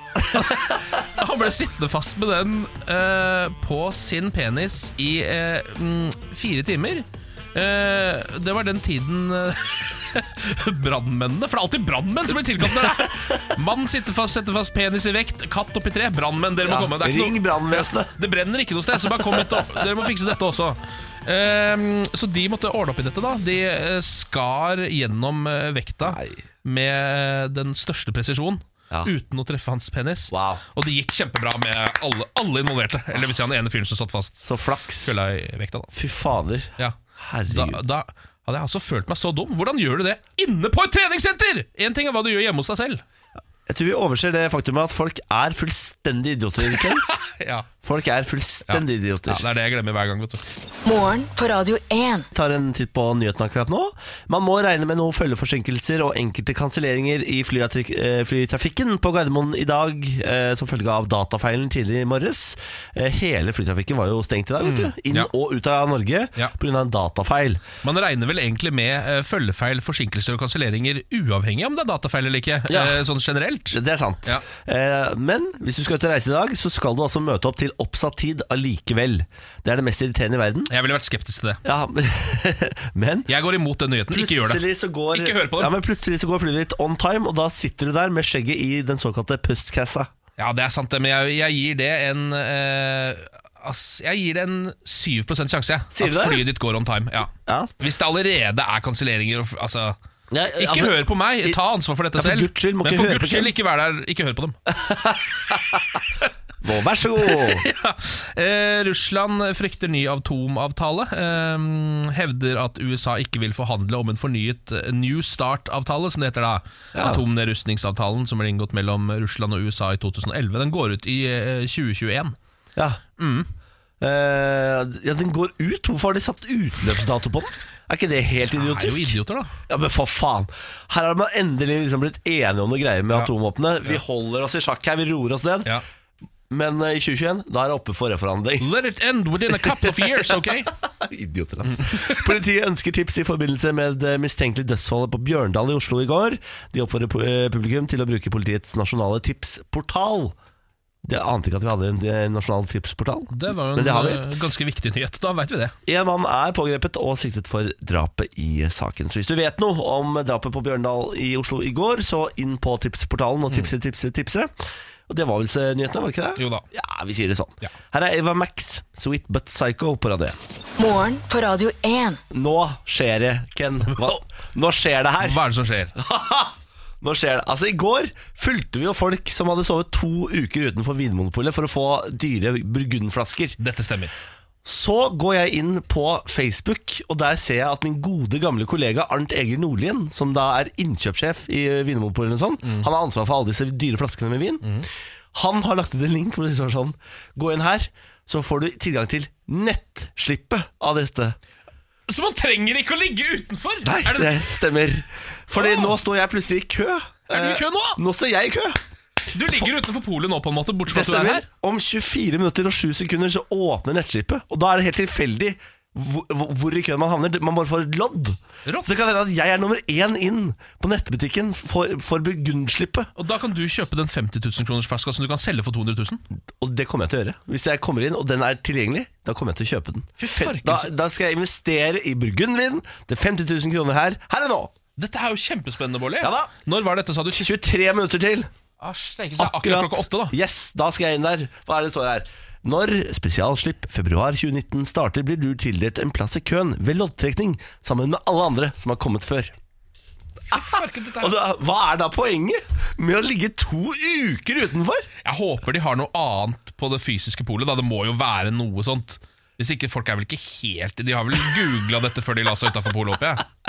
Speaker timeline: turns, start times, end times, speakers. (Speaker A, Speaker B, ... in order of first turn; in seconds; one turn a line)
Speaker A: 0.3-35.9
Speaker B: 12.6-13.4
Speaker B: 16.6-18.1
Speaker B: 19.0-19.8
Speaker B: 26.0-26.4
Speaker B: 30.3-30.6
Speaker B: 33.1-33.5
Speaker B: 34.4-35.1
Speaker B: 35.9-37.8
Speaker A: 37.5-43.0
Speaker B: 43.7-47.0
Speaker A: 46.7-47.7
Speaker B: 47.8-49.4
Speaker A: 48.7-50.4
Speaker C: 50.9-52.3
Speaker B: 52.3-67.6
Speaker A: 64.6-65.3
Speaker A: 67.8-74.4
Speaker B: 72.7-73.0
Speaker B: 73.7-80.7
Speaker A: 80.7-81.6
Speaker B: 81.6-83.3
Speaker A: 83.3-85.8
Speaker B: 84.1-90.1
Speaker A: 90.4-104.6
Speaker B: 95.9-96.5
Speaker B: 97.5-97.7
Speaker B: 100.3-101.6
Speaker B: 102.1-103.5
Speaker B: 104.7-106.0
Speaker B: 106.6-107.7
Speaker A: 107.2-122.4
Speaker B: 117.0-117.2
Speaker B: 122.8-123.0
Speaker A: 123.2-123.5
Speaker B: 124.0-135.7
Speaker A: 128.5-129.6
Speaker B: 136.5-138.7
Speaker A: 138.6-140.7
Speaker B: 139.5-150.3
Speaker A: 141.7-142.3
Speaker B: 151.0-154.3
Speaker A: 153.3-155.7
Speaker B: 155.9-164.5
Speaker B: 165.1-170.4
Speaker A: 166.4-166.7
Speaker C: 170.8-172.2
Speaker B: 172.3-175.4
Speaker A: 173.9-174.2
Speaker A: 175.2-175.9
Speaker B: 175.9-183.6
Speaker A: 183.6-184.1
Speaker B: 184.6-194.8
Speaker A: 192.6-192.9
Speaker B: 195.3-201.4
Speaker A: 202.1-204.4
Speaker B: 203.8-208.8
Speaker A: 205.5-205.9
Speaker A: 207.3-208.0
Speaker A: 209.3-211.4
Speaker B: 210.9-223.1
Speaker A: 218.7-219.0
Speaker A: 223.2-226.2
Speaker B: 226.6-234.7
Speaker A: 230.2-230.9
Speaker A: 235.0-237.6
Speaker B: 236.2-236.5
Speaker B: 237.3-238.5
Speaker A: 238.8-240.3
Speaker B: 239.4-249.6
Speaker A: 250.5-251.4
Speaker B: 250.5-255.1
Speaker A: 255.2-263.4